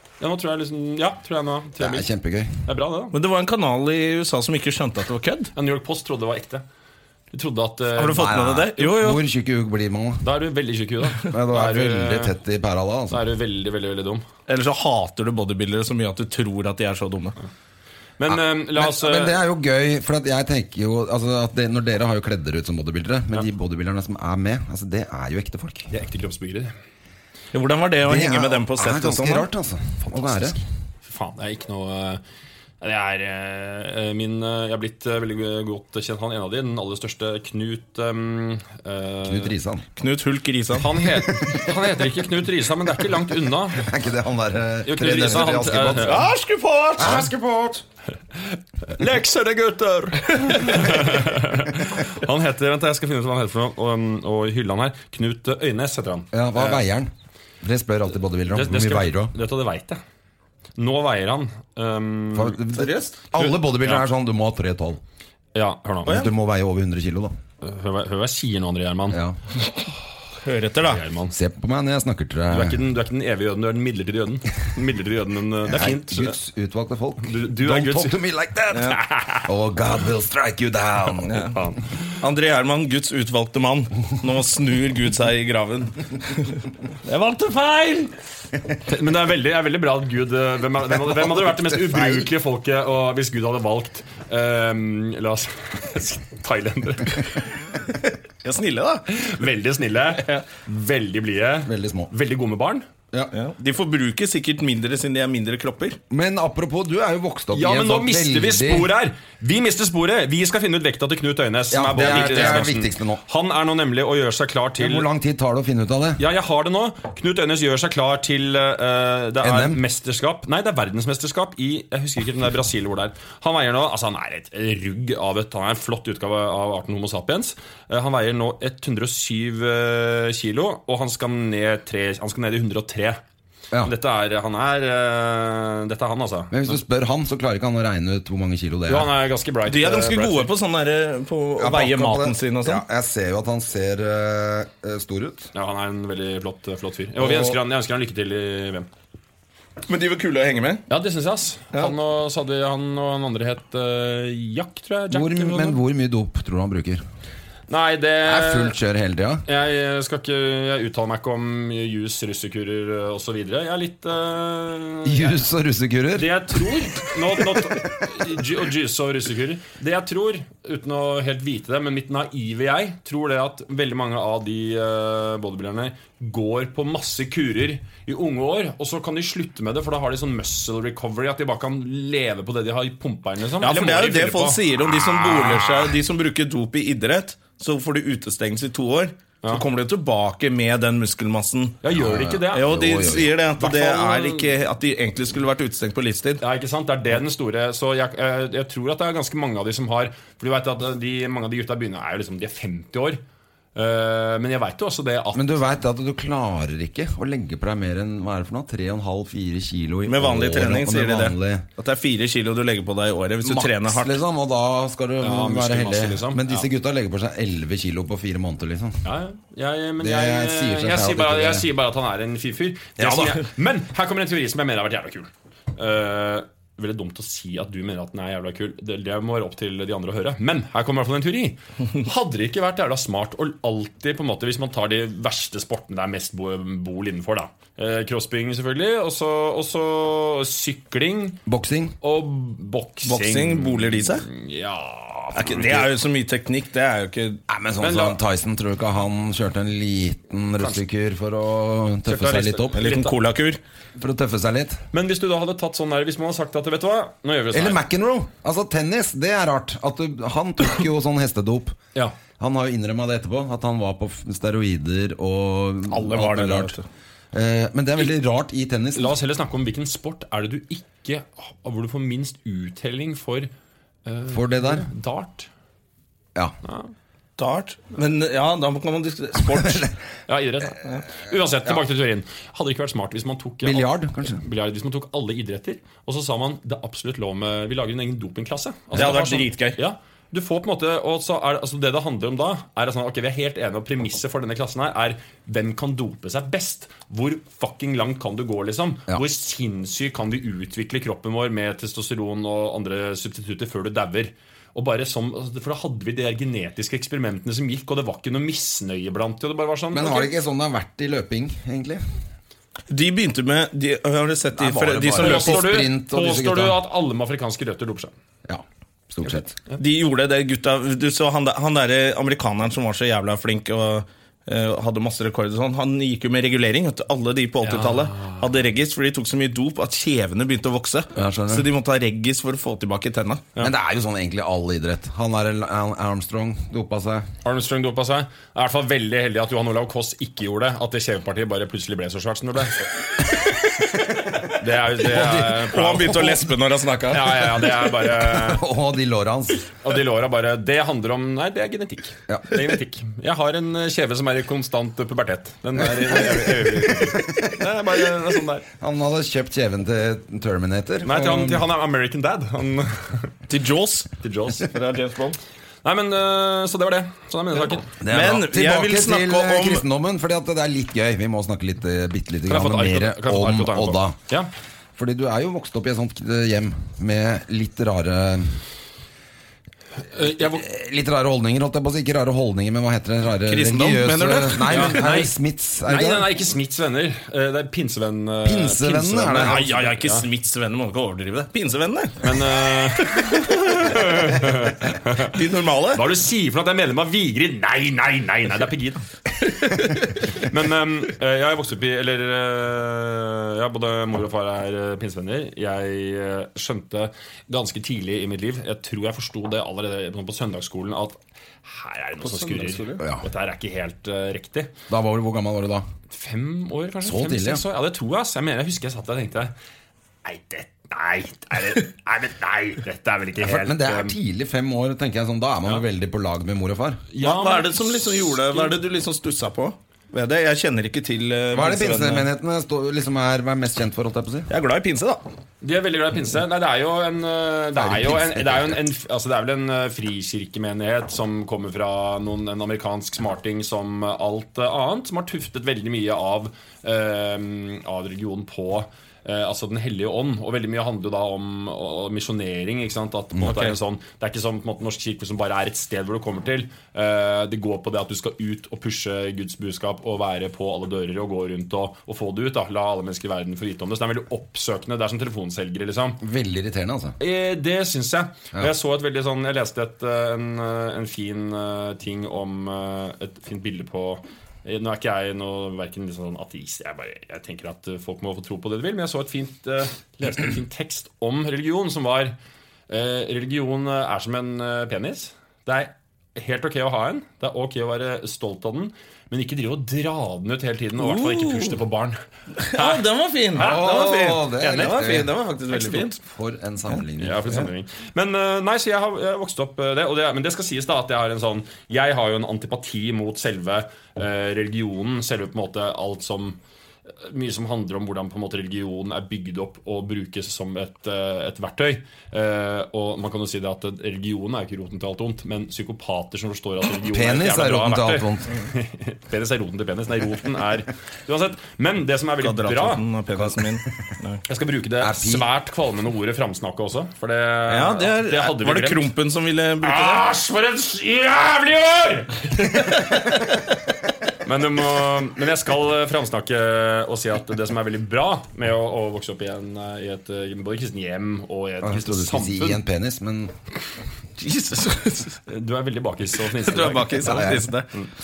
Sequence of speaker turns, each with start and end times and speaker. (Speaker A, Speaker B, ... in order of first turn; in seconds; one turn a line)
Speaker A: 0.2-2.1
Speaker B: 1.8-2.6
Speaker A: 2.6-3.1
Speaker C: 3.1-5.5
Speaker A: 5.5-6.6
Speaker A: 7.3-9.2
Speaker C: 8.0-9.2
Speaker B: 8.2-10.3
Speaker A: 10.2-12.3
Speaker B: 11.2-13.2
Speaker A: 13.1-14.2
Speaker C: 14.5-17.4
Speaker A: 18.2-19.4
Speaker B: 18.3-25.9
Speaker A: 25.9-26.7
Speaker C: 27.5-29.5
Speaker B: 28.0-30.6
Speaker A: 30.3-32.2
Speaker A: 32.8-39.5
Speaker B: 39.2-39.9
Speaker C: 40.0-40.9
Speaker A: 40.8-43.9
Speaker B: 43.7-46.2
Speaker A: 44.9-46.2
Speaker C: 46.0-47.3
Speaker B: 47.0-47.8
Speaker A: 48.9-56.8
Speaker C: 50.4-50.8
Speaker B: 56.3-59.3
Speaker A: 58.5-60.0
Speaker A: 60.8-62.6
Speaker B: 62.3-65.0
Speaker C: 62.7-63.1
Speaker A: 63.3-64.0
Speaker A: 65.5-66.2
Speaker B: 66.0-67.3
Speaker A: 67.6-69.2
Speaker B: 69.1-69.4
Speaker C: 70.4-71.0
Speaker A: 70.9-71.3
Speaker B: 71.3-72.8
Speaker A: 72.5-76.3
Speaker B: 75.7-81.3
Speaker A: 77.2-78.2
Speaker C: 78.7-79.0
Speaker A: 78.8-79.5
Speaker C: 81.2-81.5
Speaker A: 81.4-82.0
Speaker C: 82.2-88.1
Speaker A: 88.8-97.5
Speaker B: 91.4-92.2
Speaker C: 98.4-99.0
Speaker A: 99.1-102.9
Speaker B: 101.6-102.1
Speaker C: 103.3-106.0
Speaker B: 106.1-108.9
Speaker A: 107.5-115.0
Speaker B: 111.7-113.2
Speaker C: 112.1-112.6
Speaker B: 114.8-116.2
Speaker A: 116.2-133.2
Speaker B: 119.4-119.8
Speaker A: 133.8-136.8
Speaker B: 136.5-139.1
Speaker A: 138.9-140.5
Speaker C: 139.7-142.8
Speaker B: 141.6-145.5
Speaker A: 145.5-148.9
Speaker B: 147.2-147.6
Speaker C: 149.9-150.8
Speaker A: 150.9-155.8
Speaker B: 155.1-157.0
Speaker A: 157.7-158.8
Speaker B: 158.2-159.4
Speaker A: 159.4-165.4
Speaker B: 165.0-166.4
Speaker A: 166.1-185.9
Speaker C: 183.6-191.8
Speaker A: 191.8-194.5
Speaker B: 191.9-193.3
Speaker C: 192.5-196.4
Speaker A: 196.4-203.2
Speaker A: 203.7-205.6
Speaker B: 205.3-211.7
Speaker C: 210.1-214.2
Speaker B: 213.4-219.0
Speaker A: 215.2-216.7
Speaker A: 219.0-241.4
Speaker B: 220.0-221.7
Speaker B: 223.0-223.4
Speaker B: 241.4-241.9
Speaker A: 242.0-245.9
Speaker C: 243.0-244.2
Speaker C: 245.3-247.4
Speaker B: 247.5-252.8
Speaker A: 247.8-248.2
Speaker A: 252.1-253.2
Speaker C: 252.7-253.6
Speaker B: 254.0-254.8
Speaker A: 254.9-257.8
Speaker B: 257.5-261.8
Speaker B: 262.4-266.8
Speaker C: 265.9-266.9
Speaker B: 267.3-269.2
Speaker A: 268.9-273.5
Speaker A: 274.0-275.5
Speaker B: 274.3-274.9
Speaker A: 276.6-276.9
Speaker C: 277.4-279.9
Speaker B: 279.5-279.9
Speaker A: 280.3-310.3
Speaker B: 283.6-284.4
Speaker C: 288.9-289.8
Speaker B: 309.9-312.0
Speaker C: 312.9-315.7
Speaker B: 314.6-316.8
Speaker A: 315.1-318.1
Speaker B: 318.5-319.5
Speaker A: 319.3-319.8
Speaker C: 319.8-333.4
Speaker A: 327.6-328.4
Speaker B: 331.1-331.7
Speaker B: 333.6-337.3
Speaker A: 337.4-342.9
Speaker A: 344.5-346.3
Speaker B: 345.0-346.4
Speaker C: 345.7-347.6
Speaker A: 347.1-348.6
Speaker B: 348.1-349.7
Speaker A: 349.8-358.6
Speaker B: 356.2-357.5
Speaker B: 358.8-361.6
Speaker A: 361.0-363.3
Speaker C: 363.5-365.4
Speaker A: 364.2-364.7
Speaker A: 365.8-367.9
Speaker B: 368.0-374.2
Speaker C: 368.1-369.8
Speaker A: 372.5-374.5
Speaker B: 375.0-378.6
Speaker A: 380.1-380.6
Speaker B: 380.2-386.3
Speaker C: 383.4-385.0
Speaker A: 384.7-385.3
Speaker A: 385.9-390.2
Speaker B: 388.4-389.6
Speaker C: 389.3-394.3
Speaker A: 392.2-395.4
Speaker C: 395.2-396.0
Speaker A: 395.9-399.0
Speaker C: 399.6-400.1
Speaker A: 399.9-414.7
Speaker C: 412.2-413.0
Speaker B: 414.9-415.9
Speaker A: 416.1-419.5
Speaker B: 417.0-417.6
Speaker A: 420.2-424.1
Speaker B: 423.4-427.0
Speaker A: 427.1-428.8
Speaker C: 427.2-432.3
Speaker B: 431.5-434.5
Speaker C: 434.5-435.2
Speaker A: 435.6-466.2
Speaker B: 437.8-438.8
Speaker C: 453.4-453.7
Speaker B: 466.2-467.1
Speaker A: 467.2-482.3
Speaker A: 482.9-492.2
Speaker C: 491.0-491.7
Speaker C: 492.6-496.2
Speaker A: 492.7-493.0
Speaker A: 493.6-494.1
Speaker B: 493.6-497.5
Speaker A: 494.6-495.1
Speaker A: 497.2-506.6
Speaker A: 507.2-523.0
Speaker B: 517.0-518.5
Speaker C: 522.4-524.4
Speaker A: 524.5-529.1
Speaker B: 525.0-525.5
Speaker C: 527.7-530.2
Speaker A: 529.8-533.5
Speaker A: 534.4-542.8
Speaker B: 541.8-543.5
Speaker C: 544.4-545.4
Speaker A: 545.5-547.5
Speaker C: 546.6-547.9
Speaker B: 547.2-547.6